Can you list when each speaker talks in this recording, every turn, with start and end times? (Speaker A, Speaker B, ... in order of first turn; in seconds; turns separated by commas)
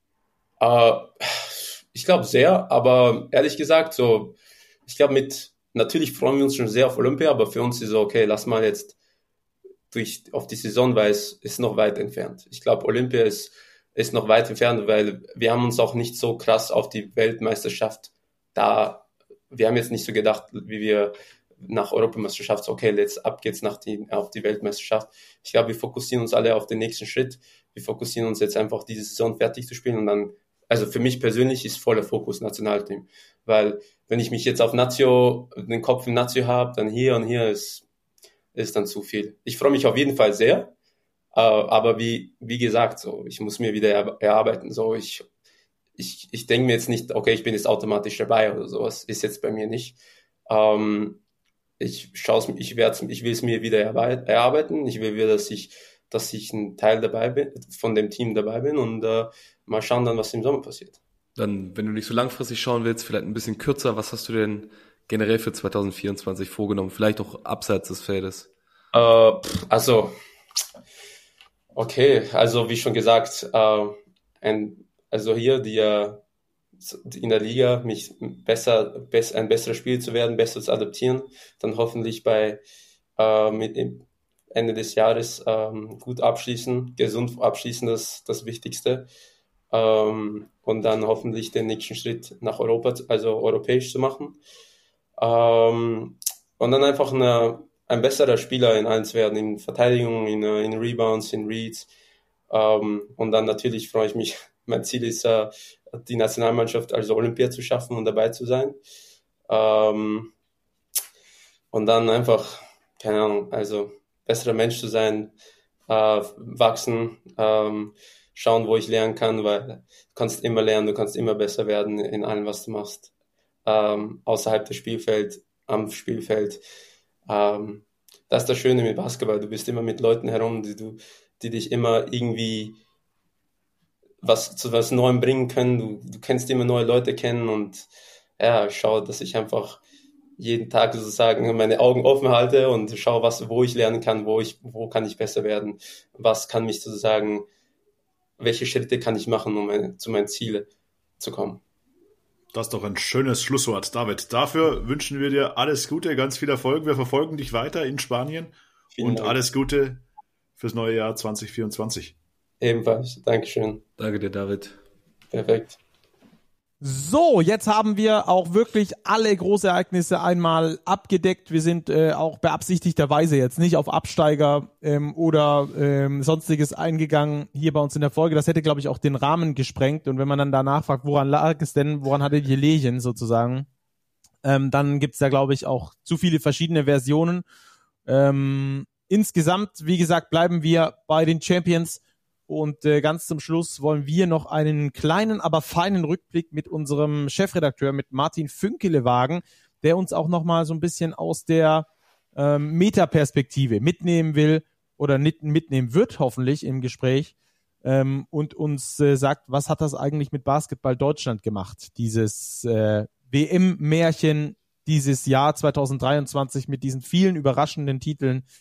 Speaker A: 0.6-9.0, Speaker A: 9.9-37.9, Speaker A: 38.5-40.7, Speaker A: 41.3-45.2, Speaker A: 46.0-50.0, Speaker A: 50.5-51.2, Speaker A: 51.8-61.0, Speaker B: 61.4-68.5, Speaker A: 68.9-70.1, Speaker A: 71.7-76.2, Speaker A: 76.8-82.6, Speaker A: 83.2-89.1, Speaker A: 89.7-94.4, Speaker A: 95.2-101.9, Speaker A: 102.5-108.8, Speaker A: 109.5-110.3, Speaker A: 111.7-115.3, Speaker A: 115.9-123.1, Speaker A: 123.7-126.6, Speaker A: 127.3-132.8, Speaker A: 134.2-137.9, Speaker A: 138.4-139.8, Speaker A: 140.4-147.5, Speaker A: 148.4-151.6, Speaker C: 152.5-160.0, Speaker A: 158.9-159.4, Speaker C: 160.6-162.2, Speaker A: 162.6-163.8, Speaker B: 164.0-164.8, Speaker A: 165.3-165.8, Speaker D: 166.8-183.7, Speaker D: 184.4-187.4, Speaker D: 188.1-218.4